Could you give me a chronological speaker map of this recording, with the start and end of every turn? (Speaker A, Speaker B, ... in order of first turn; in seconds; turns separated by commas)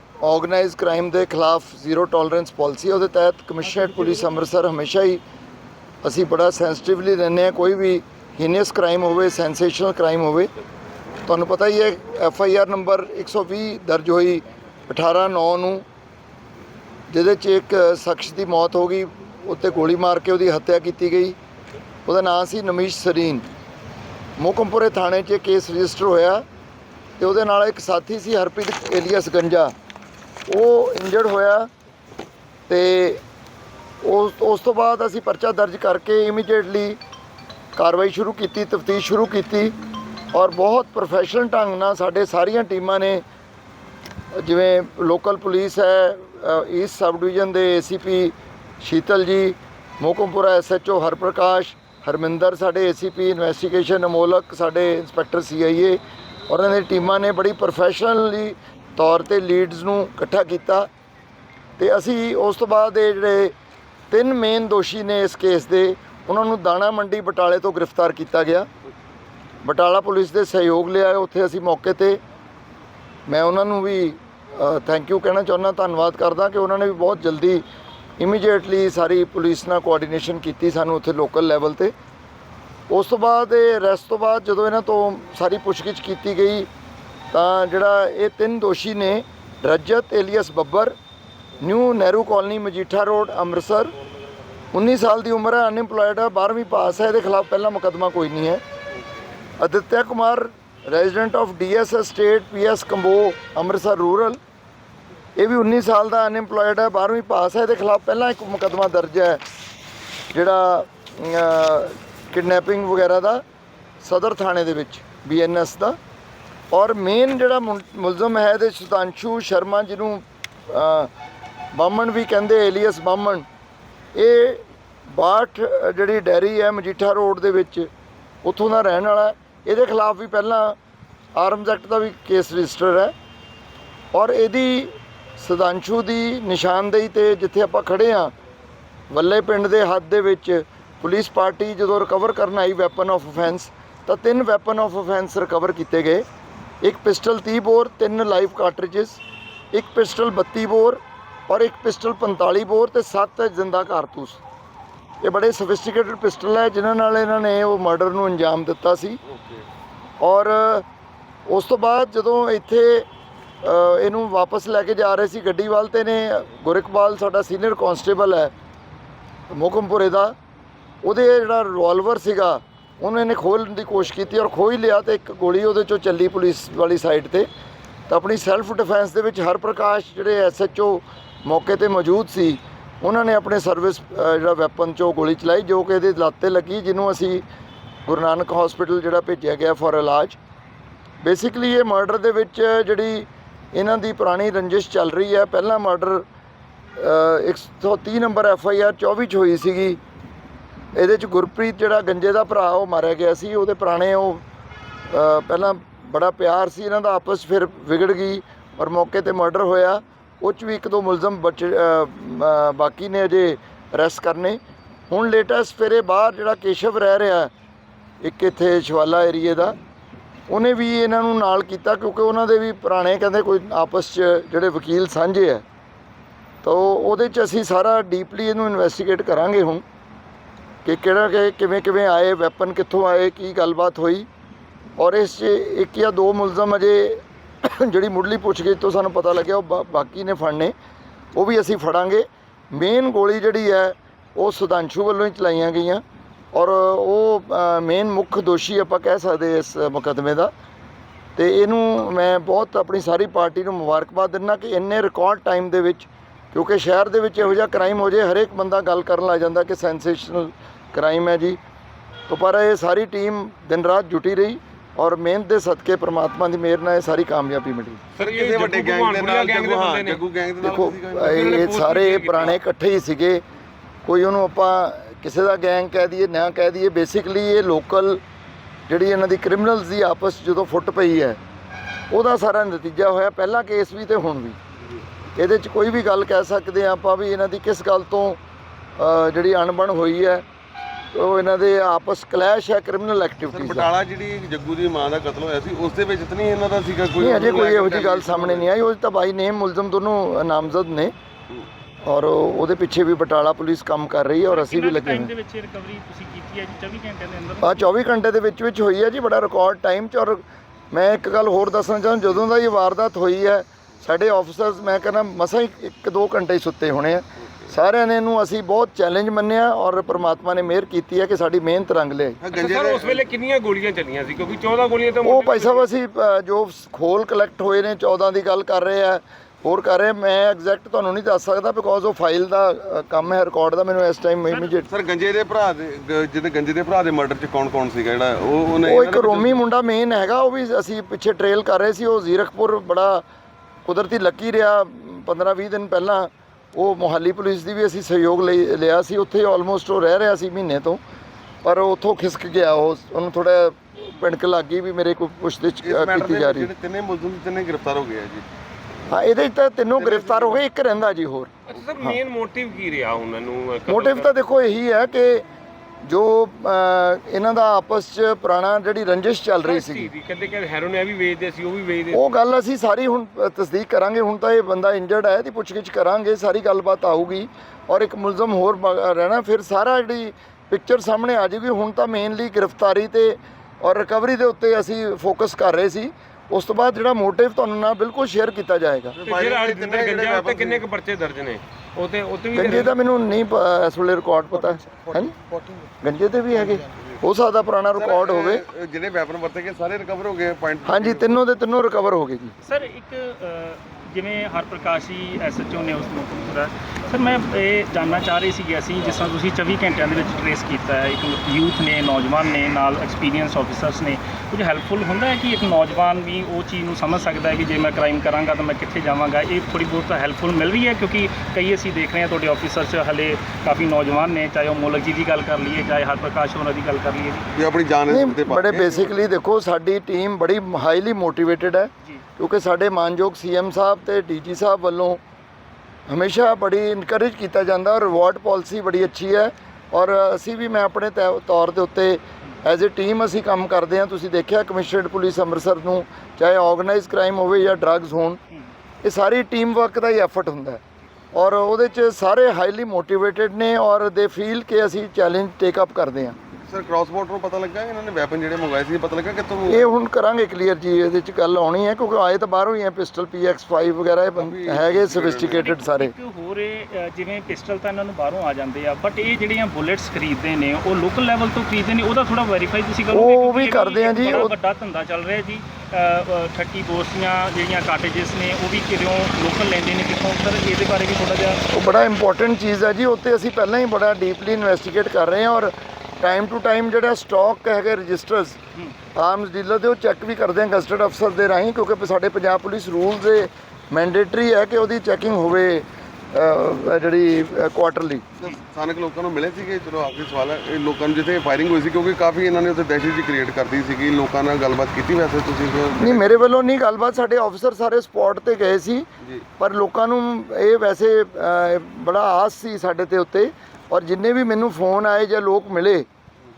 Speaker A: 0.2-5.2, Speaker A: 6.0-10.5, Speaker A: 11.2-15.8, Speaker A: 17.1-21.4, Speaker A: 22.1-23.5, Speaker A: 24.4-26.4, Speaker A: 27.2-29.7, Speaker A: 30.5-31.7, Speaker A: 32.7-33.2, Speaker A: 34.0-37.0, Speaker A: 37.8-39.7, Speaker A: 40.3-43.2, Speaker A: 44.3-60.9, Speaker A: 61.8-63.5, Speaker A: 64.1-68.7, Speaker A: 69.6-72.2, Speaker A: 73.3-77.6, Speaker A: 78.2-81.9, Speaker A: 82.9-86.7, Speaker A: 87.3-90.9, Speaker A: 91.6-93.9, Speaker A: 94.7-98.6, Speaker A: 99.6-104.4, Speaker A: 105.4-109.4, Speaker A: 110.3-113.4, Speaker A: 114.0-116.0, Speaker A: 116.7-121.1, Speaker A: 121.7-123.5, Speaker A: 124.1-127.9, Speaker A: 128.4-130.8, Speaker A: 131.3-133.1, Speaker A: 134.1-138.3, Speaker A: 139.1-146.2, Speaker A: 146.8-149.2, Speaker A: 149.7-154.4, Speaker A: 155.2-159.2, Speaker B: 159.3-159.6, Speaker A: 160.2-160.8, Speaker A: 161.5-163.1, Speaker A: 163.6-168.5, Speaker A: 169.5-170.3, Speaker A: 171.0-177.5, Speaker A: 178.1-187.4, Speaker A: 188.1-190.4, Speaker A: 191.2-196.2, Speaker A: 196.9-200.0, Speaker A: 200.9-204.4, Speaker A: 205.1-217.5, Speaker A: 218.2-219.8, Speaker A: 220.5-225.6, Speaker A: 226.6-229.8, Speaker A: 230.8-234.3, Speaker A: 235.0-240.7, Speaker A: 241.3-246.0, Speaker A: 246.5-250.5, Speaker A: 251.3-261.6, Speaker A: 262.3-268.0, Speaker C: 268.1-270.2, Speaker B: 268.2-271.5, Speaker A: 270.6-273.4, Speaker C: 271.3-272.6, Speaker A: 274.1-278.2, Speaker A: 278.9-281.4, Speaker A: 282.1-284.6, Speaker A: 285.4-288.4, Speaker A: 289.0-290.4, Speaker A: 291.1-293.9, Speaker B: 293.5-298.7, Speaker A: 297.2-301.1, Speaker A: 302.0-305.3, Speaker D: 304.5-307.9, Speaker A: 307.6-322.4, Speaker B: 322.4-323.3, Speaker C: 322.5-325.8, Speaker A: 325.2-334.9, Speaker B: 334.9-339.6, Speaker A: 338.8-343.2, Speaker A: 343.8-351.0, Speaker A: 351.6-356.7, Speaker B: 355.8-358.4, Speaker A: 359.1-362.2, Speaker B: 359.9-360.6, Speaker C: 361.7-364.3, Speaker A: 363.9-365.4, Speaker A: 366.0-370.1, Speaker C: 369.6-372.2, Speaker A: 372.1-389.1, Speaker B: 389.2-390.8, Speaker C: 389.2-392.9, Speaker A: 392.5-395.3, Speaker B: 394.5-395.9, Speaker A: 396.0-398.6, Speaker B: 396.5-397.2, Speaker B: 397.9-401.4, Speaker A: 400.9-402.5, Speaker D: 402.6-427.5, Speaker B: 427.6-429.2, Speaker A: 428.1-435.2, Speaker A: 436.1-448.4, Speaker A: 449.0-450.8, Speaker A: 451.3-456.4, Speaker B: 456.5-459.9, Speaker A: 459.7-466.1, Speaker B: 464.4-465.8, Speaker D: 465.5-481.6, Speaker A: 473.1-474.5, Speaker A: 481.7-488.6, Speaker A: 489.1-498.3, Speaker B: 498.4-506.4, Speaker A: 506.0-509.1, Speaker A: 509.6-516.0